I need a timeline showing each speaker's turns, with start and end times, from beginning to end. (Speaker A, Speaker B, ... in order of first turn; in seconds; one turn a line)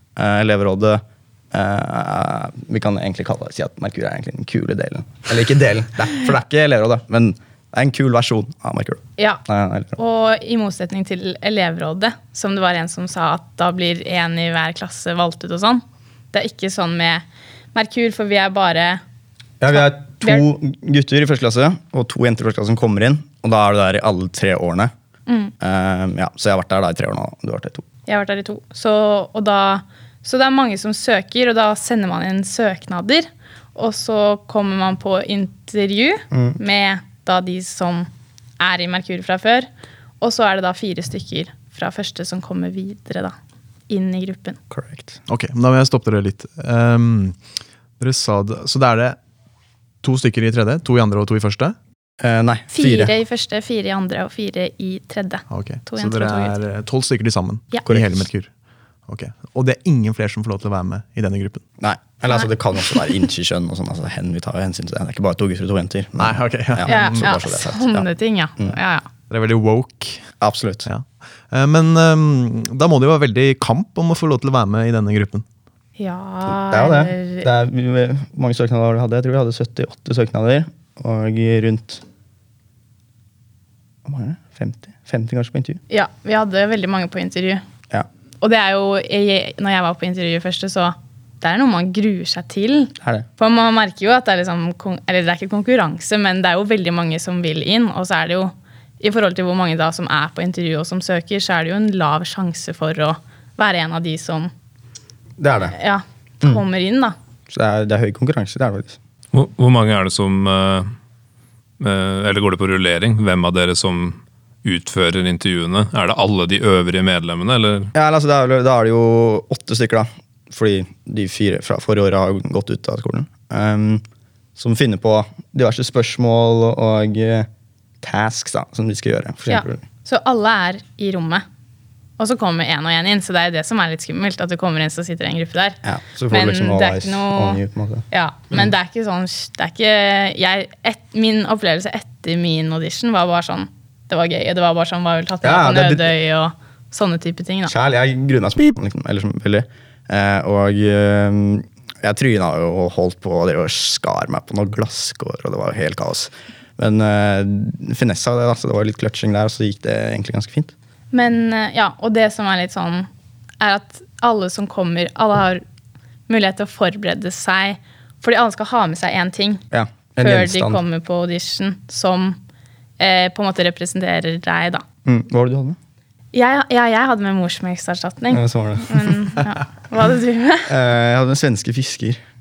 Speaker A: 0.2-10.0
Speaker B: 10.0-19.0
Speaker A: 19.6-24.9
Speaker B: 19.7-20.5
Speaker B: 25.3-25.5
Speaker A: 25.6-27.9
Speaker B: 28.1-38.1
Speaker A: 36.3-36.6
Speaker B: 38.6-39.7
Speaker B: 40.2-43.4
Speaker B: 43.9-44.6
Speaker A: 44.7-45.2
Speaker C: 45.3-47.4
Speaker C: 48.0-49.2
Speaker C: 50.0-51.8
Speaker A: 52.2-53.1
Speaker B: 52.7-56.6
Speaker C: 55.5-58.5
Speaker A: 57.9-58.3
Speaker C: 59.1-61.6
Speaker A: 61.8-68.1
Speaker C: 66.2-67.3
Speaker B: 66.8-69.1
Speaker C: 69.3-70.2
Speaker A: 70.4-70.9
Speaker C: 70.9-75.5
Speaker B: 76.0-77.5
Speaker A: 76.7-82.0
Speaker A: 84.0-85.8
Speaker B: 85.9-87.6
Speaker B: 88.4-104.5
Speaker A: 93.0-93.3
Speaker A: 105.4-105.8
Speaker B: 105.7-107.2
Speaker A: 107.5-109.0
Speaker D: 109.3-110.9
Speaker D: 111.8-117.9
Speaker A: 117.9-124.0
Speaker A: 124.6-127.5
Speaker A: 128.0-129.8
Speaker B: 129.5-131.4
Speaker B: 132.2-147.7
Speaker A: 135.8-138.7
Speaker A: 145.4-146.1
Speaker A: 147.7-160.7
Speaker B: 161.1-163.1
Speaker B: 163.6-165.6
Speaker B: 166.3-169.6
Speaker A: 169.7-170.8
Speaker B: 170.2-172.4
Speaker B: 173.0-174.8
Speaker A: 175.1-175.8
Speaker B: 176.3-180.7
Speaker A: 178.3-179.2
Speaker A: 180.7-182.2